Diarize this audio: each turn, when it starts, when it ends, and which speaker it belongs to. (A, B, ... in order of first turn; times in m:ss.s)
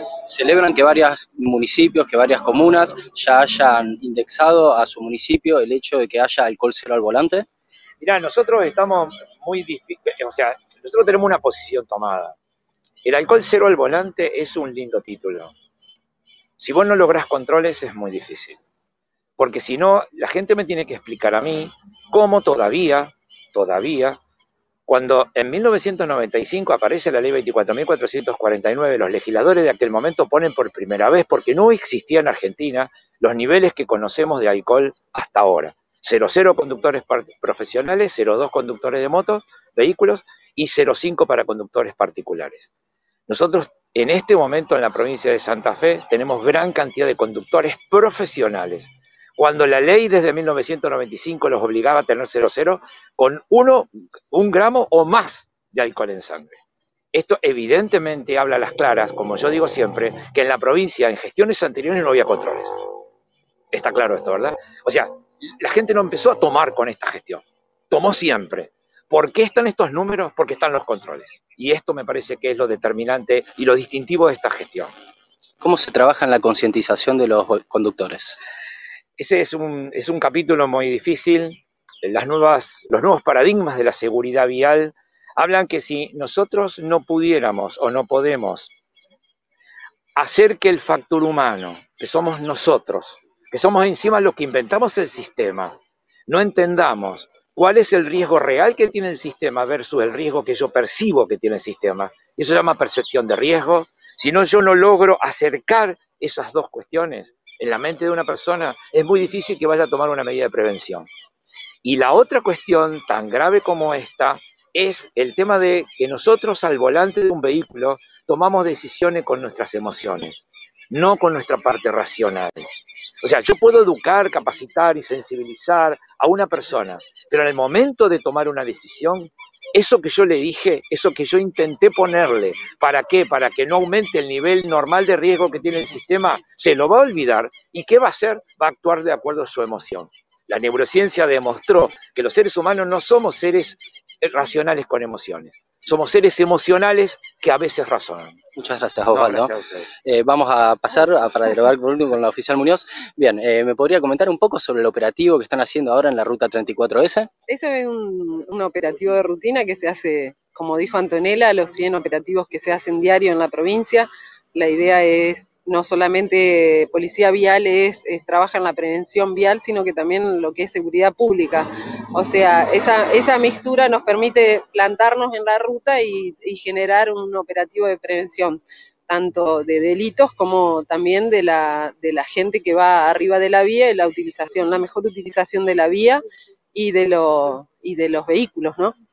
0:00.2-0:07.4 A
0:08.0-0:12.3 B
0:13.0-0:15.5 B
0:16.6-0:18.6 B
0:19.4-0:24.2 B
0:24.9-0:42.7 B
0:43.3-0:56.6 B
0:57.1-1:02.8 B
1:03.7-1:05.1 B
1:05.6-1:14.9 B
1:15.6-1:18.4 A
1:19.2-1:28.7 B
1:30.2-1:35.7 B
1:36.3-1:51.1 B
1:51.8-2:02.6 B
2:03.2-2:28.4 B
2:28.6-2:29.5 A
2:29.1-2:29.9 B
2:30.0-2:37.3 A
2:37.5-3:06.2 C
3:06.7-3:08.9 C